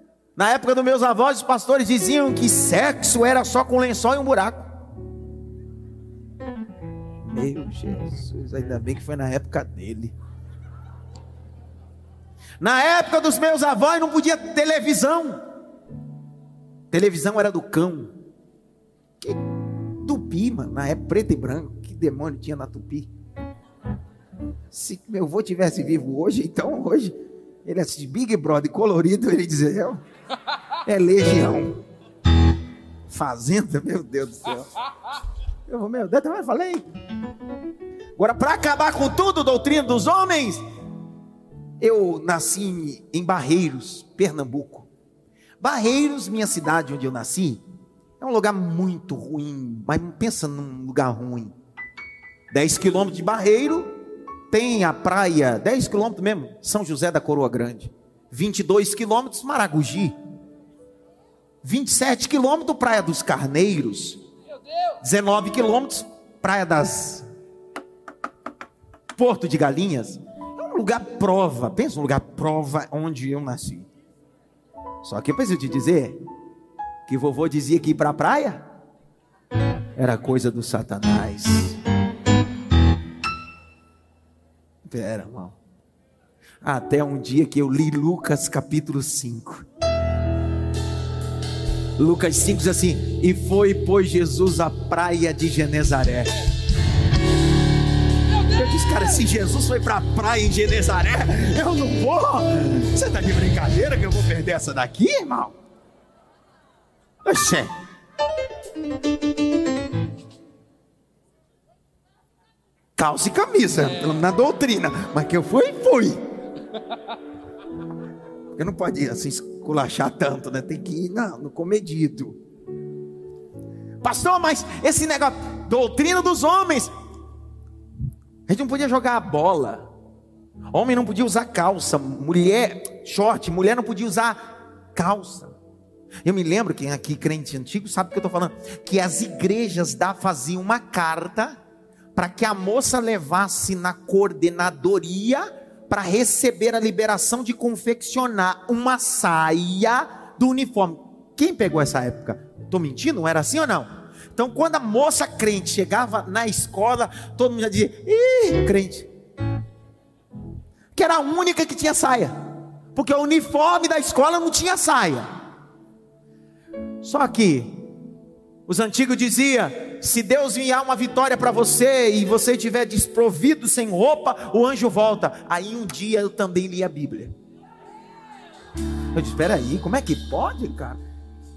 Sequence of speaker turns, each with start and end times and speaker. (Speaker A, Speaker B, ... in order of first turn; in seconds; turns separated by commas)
Speaker A: 0.4-4.7, Speaker A: 7.2-10.1, Speaker A: 12.6-15.4, Speaker A: 16.9-18.1, Speaker A: 20.0-23.1, Speaker A: 24.7-30.0, Speaker A: 30.9-31.8, Speaker A: 33.1-34.7, Speaker A: 35.7-36.8, Speaker A: 38.2-40.6, Speaker A: 41.8-44.9, Speaker A: 45.6-47.6, Speaker A: 48.2-51.5, Speaker A: 52.5-53.9, Speaker A: 54.5-60.1, Speaker A: 61.6-64.2, Speaker A: 65.0-67.2, Speaker A: 69.2-73.9, Speaker A: 75.0-76.2, Speaker A: 77.1-78.6, Speaker A: 80.0-81.8, Speaker A: 84.8-85.6, Speaker A: 86.6-89.6, Speaker A: 92.0-96.3, Speaker A: 98.4-105.5, Speaker A: 107.2-107.7, Speaker A: 113.0-116.2, Speaker A: 118.6-122.4, Speaker A: 124.0-126.9, Speaker A: 128.5-129.9, Speaker A: 130.7-135.5, Speaker A: 136.2-141.6, Speaker A: 142.2-159.1, Speaker A: 160.9-162.4, Speaker A: 162.9-165.3, Speaker A: 167.0-167.9, Speaker A: 168.7-177.3, Speaker A: 179.1-181.0